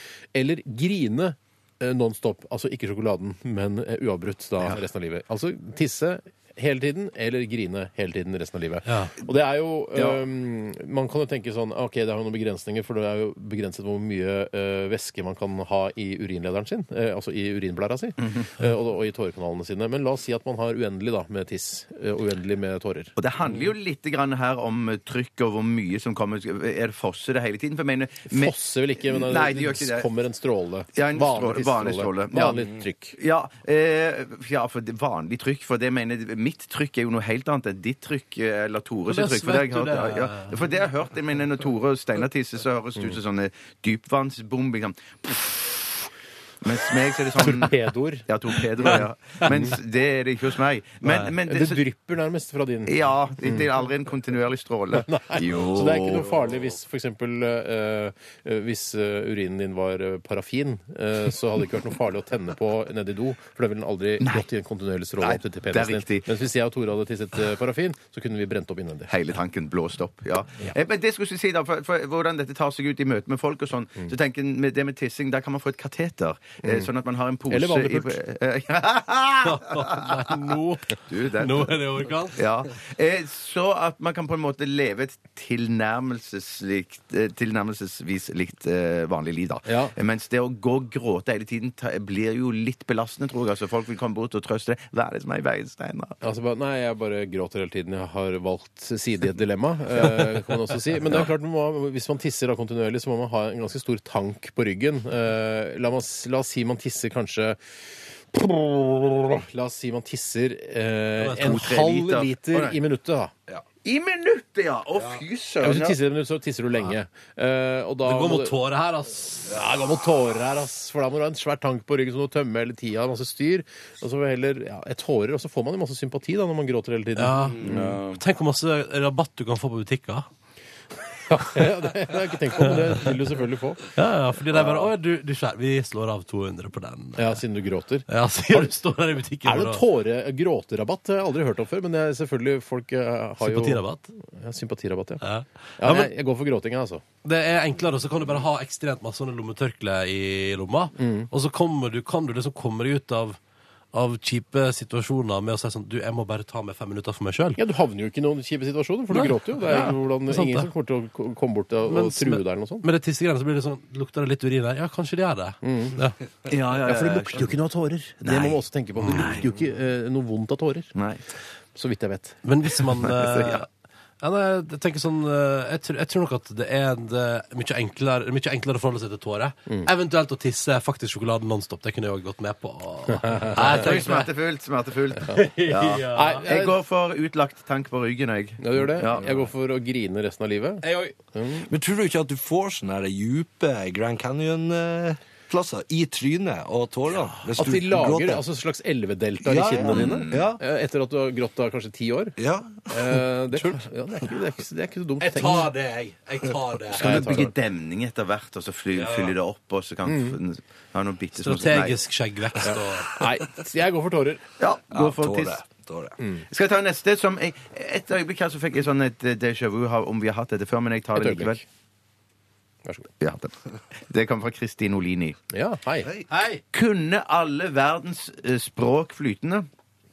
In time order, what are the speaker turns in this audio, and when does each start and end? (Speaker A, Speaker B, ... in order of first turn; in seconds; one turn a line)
Speaker A: 0.3-23.1
Speaker B: 8.9-9.1
Speaker C: 9.9-10.2
Speaker C: 23.2-30.1
Speaker A: 28.3-33.2
Speaker C: 30.9-32.6
Speaker C: 33.2-45.7
Speaker B: 39.1-40.6
Speaker C: 46.6-51.8
Speaker A: 47.4-48.3
Speaker A: 48.8-49.8
Speaker B: 51.1-51.3
Speaker A: 51.4-53.7
Speaker C: 52.9-56.3
Speaker A: 55.0-69.1
Speaker C: 65.2-66.3
Speaker C: 69.1-80.3
Speaker A: 76.6-76.9
Speaker A: 77.5-78.2
Speaker B: 79.4-82.5
Speaker C: 81.1-81.8
Speaker C: 82.3-96.2
Speaker A: 89.6-89.9
Speaker A: 96.2-107.6
Speaker A: 108.3-113.3
Speaker B: 111.2-111.7
Speaker C: 111.4-112.8
Speaker C: 113.8-116.0
Speaker D: 115.0-115.2
Speaker A: 115.6-118.5
Speaker B: 118.0-119.6
Speaker A: 119.5-128.0
Speaker B: 127.2-130.3
Speaker C: 127.6-128.2
Speaker A: 131.3-133.9
Speaker B: 132.6-133.0
Speaker B: 133.9-137.4
Speaker C: 134.6-134.9
Speaker A: 137.2-138.7
Speaker B: 138.1-139.8
Speaker A: 139.4-145.2
Speaker B: 143.4-144.1
Speaker B: 145.2-146.1
Speaker A: 145.8-147.0
Speaker B: 147.2-153.4
Speaker A: 151.0-151.3
Speaker B: 153.9-157.6
Speaker A: 157.6-162.9
Speaker B: 159.1-160.7
Speaker B: 161.9-166.2
Speaker A: 165.6-166.0
Speaker C: 166.5-167.5
Speaker A: 166.8-170.9
Speaker C: 168.2-169.4
Speaker B: 169.0-169.3
Speaker C: 170.9-171.2
Speaker A: 171.8-172.4
Speaker B: 172.4-173.7
Speaker C: 173.0-173.6
Speaker B: 174.2-184.3
Speaker A: 183.2-183.7
Speaker C: 183.6-189.4
Speaker B: 185.2-186.5
Speaker A: 186.1-186.7
Speaker A: 188.6-191.7
Speaker B: 190.8-191.1
Speaker D: 191.7-198.4
Speaker A: 197.6-202.3
Speaker D: 199.4-200.6
Speaker C: 199.8-200.5
Speaker D: 202.4-204.3
Speaker A: 202.9-205.7
Speaker B: 205.2-207.4
Speaker C: 206.9-212.0
Speaker A: 207.0-207.5
Speaker B: 208.9-209.4
Speaker A: 210.1-210.4
Speaker B: 211.4-213.2
Speaker A: 212.6-214.4
Speaker C: 214.6-215.6
Speaker D: 214.9-216.2
Speaker A: 216.2-216.4
Speaker C: 216.5-221.6
Speaker A: 221.1-221.6
Speaker A: 222.8-223.1
Speaker C: 223.2-225.4
Speaker A: 225.5-226.1
Speaker D: 226.0-226.3
Speaker B: 226.3-226.6
Speaker C: 226.7-229.7